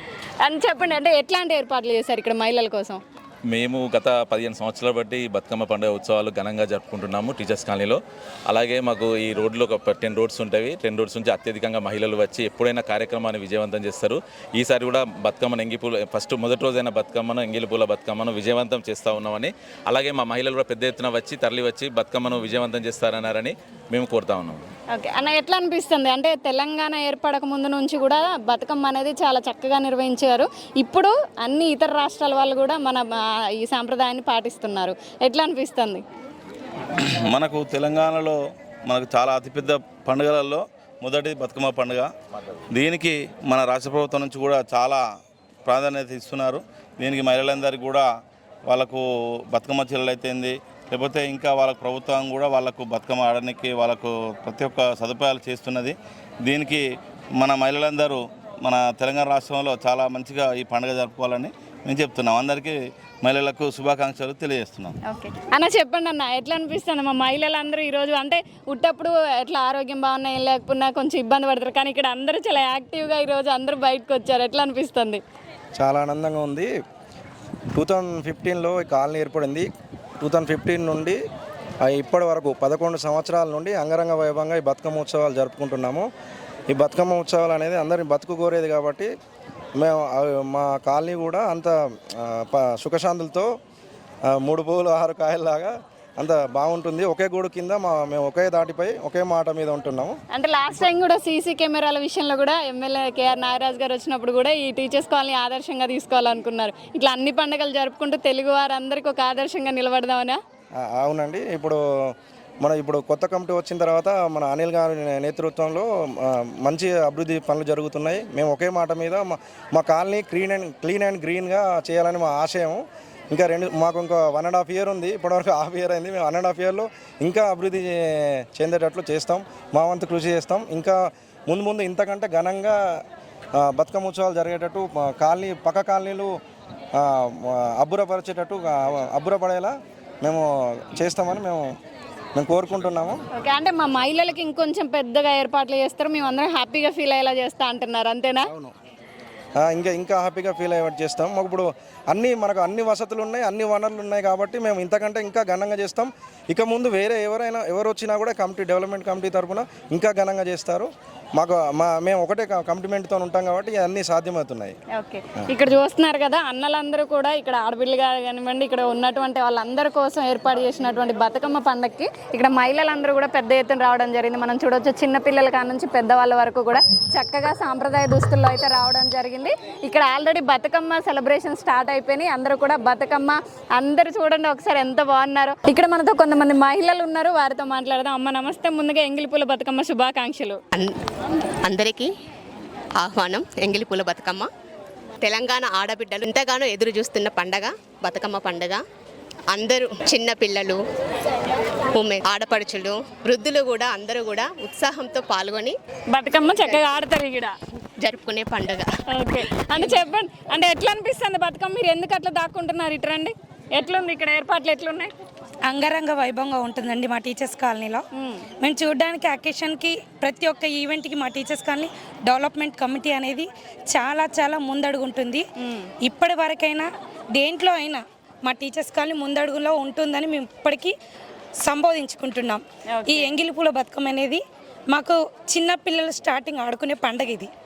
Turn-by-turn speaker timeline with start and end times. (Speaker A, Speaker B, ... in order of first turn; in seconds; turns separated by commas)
Speaker A: 0.4-3.0, Speaker B: 3.5-24.6, Speaker A: 24.9-36.0, Speaker C: 37.1-42.1, Speaker C: 42.7-45.0, Speaker C: 45.6-48.1, Speaker C: 48.7-56.8, Speaker C: 57.4-65.0, Speaker A: 65.1-75.2, Speaker D: 75.8-76.7, Speaker D: 77.7-79.7, Speaker D: 80.2-81.2, Speaker D: 81.8-86.1, Speaker D: 86.7-89.1, Speaker D: 89.8-93.5, Speaker D: 94.3-100.2, Speaker A: 100.3-110.4, Speaker D: 110.9-111.8, Speaker D: 112.6-133.0, Speaker D: 133.6-136.3, Speaker D: 137.0-141.7, Speaker D: 142.3-143.2, Speaker A: 143.3-148.5, Speaker D: 148.4-148.7, Speaker D: 149.6-164.8, Speaker A: 164.9-190.6, Speaker E: 191.6-192.1, Speaker E: 193.0-194.5, Speaker E: 195.2-198.8, Speaker E: 199.5-200.8, Speaker E: 201.9-205.8, Speaker A: 206.1-207.5, Speaker E: 208.0-208.9, Speaker A: 209.1-215.1, Speaker F: 215.7-218.0, Speaker A: 218.1-218.4, Speaker F: 218.6-225.4, Speaker A: 225.6-225.9, Speaker F: 226.0-230.9, Speaker F: 231.6-237.5, Speaker A: 232.9-233.3